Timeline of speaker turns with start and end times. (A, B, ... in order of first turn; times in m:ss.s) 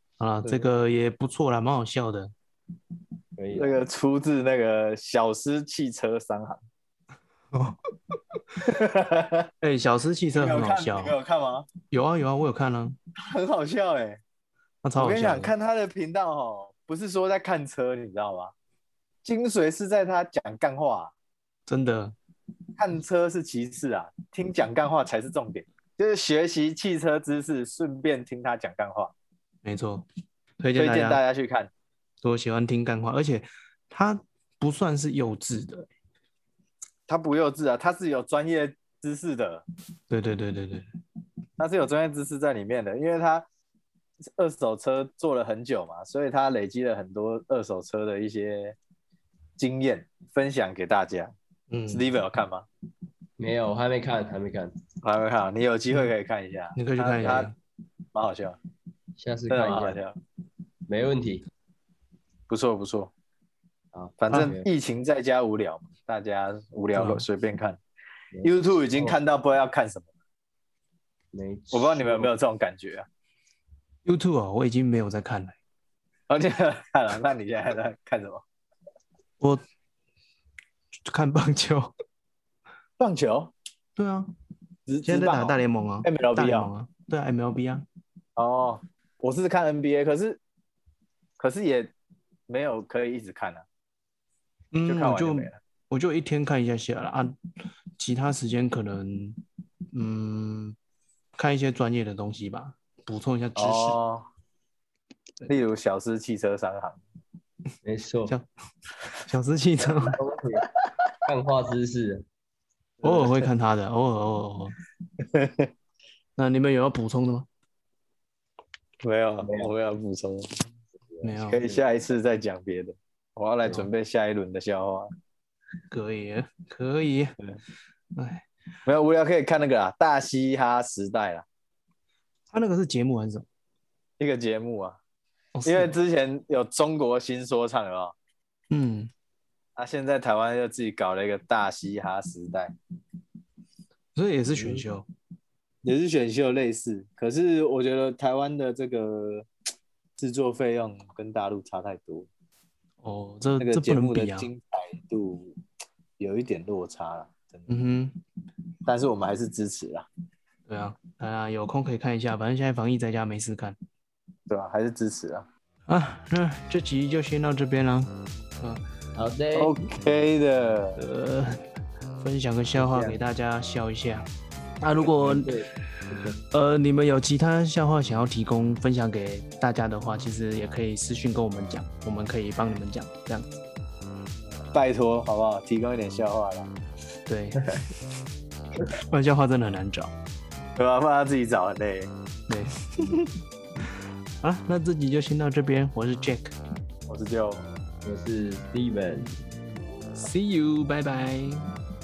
0:00.2-0:02.3 A
0:03.4-0:03.8 B
0:03.5-0:06.6 C
0:07.5-0:07.8 A
0:08.6-0:09.5 C
0:09.6-0:11.2 A
0:10.3-0:11.7 C
0:11.9-0:13.0 A
0:13.2-0:14.2 C
0:14.8-0:15.5 A
0:15.0-0:18.5 C
0:19.2-0:21.1 C
0:21.7-0:22.2 A
0:22.8-0:29.1 C
0:29.6-0:30.1 A
0:30.6-0:31.2 A
0:30.8-0:31.7 C
0:32.2-0:35.9 A
0:37.1-0:39.6 C
0:40.1-0:40.9 A
0:41.6-0:43.5 C
0:44.4-0:48.8 C
0:49.6-0:51.3 C
0:51.7-0:52.1 A
0:51.9-0:52.7 C
0:53.4-0:54.8 B
0:55.0-0:57.5 C
0:56.8-0:57.6 A
0:58.1-0:58.6 C
0:59.2-1:00.0 B
0:59.5-1:00.2 C
1:00.9-1:01.5 B
1:02.5-1:03.1 C
1:03.9-1:04.7 B
1:04.2-1:07.8 C
1:07.0-1:07.3 A
1:08.3-1:09.2 B
1:08.4-1:10.1 C
1:11.3-1:12.3 B
1:11.7-1:13.1 C
1:14.0-1:15.6 A
1:16.3-1:18.4 C
1:21.1-1:21.9 A
1:23.0-1:23.5 C
1:24.0-1:24.3 A
1:24.9-1:26.7 C
1:25.0-1:27.8 A
1:28.4-1:30.4 C
1:31.4-1:31.9 C
1:32.5-1:33.6 C
1:34.7-1:37.4 A
1:34.8-1:35.6 C
1:38.0-1:39.4 A
1:39.9-1:40.8 A
1:41.4-1:44.0 A
1:43.6-1:44.3 C
1:45.5-1:47.0 C
1:47.8-1:48.4 B
1:49.2-1:50.2 A
1:50.1-1:50.6 B
1:51.3-1:52.3 B
1:53.0-1:53.5 C
1:53.0-1:54.8 A
1:55.2-1:55.7 C
1:56.4-1:57.5 A
1:59.0-2:00.6 C
1:59.4-1:59.7 B
2:01.1-2:01.8 B
2:01.2-2:01.6 A
2:01.4-2:05.1 C
2:05.9-2:07.4 A
2:08.2-2:08.5 A
2:08.9-2:11.4 C
2:12.5-2:13.5 A
2:14.2-2:15.0 C
2:15.6-2:16.0 A
2:15.6-2:18.1 C
2:18.7-2:19.1 A
2:19.8-2:22.7 C
2:24.2-2:25.1 A
2:24.5-2:24.8 C
2:25.8-2:29.5 C
2:30.2-2:32.3 C
2:33.0-2:34.5 A
2:33.6-2:35.6 C
2:36.2-2:37.7 C
2:37.7-2:38.2 A
2:38.9-2:40.1 C
2:40.7-2:43.8 A
2:44.5-2:45.5 C
2:45.9-2:48.8 A
2:49.2-2:49.8 B
2:49.6-2:51.0 C
2:51.0-2:51.6 A
2:52.2-2:54.3 A
2:52.8-2:53.2 C
2:54.8-2:55.6 A
2:55.1-2:56.4 B
2:56.5-3:03.5 A
3:04.5-3:06.7 C
3:07.3-3:07.7 A
3:08.9-3:10.1 A
3:10.8-3:12.1 C
3:12.5-3:13.3 A
3:14.4-3:16.5 A
3:17.1-3:17.6 C
3:18.0-3:19.3 B
3:20.2-3:21.6 A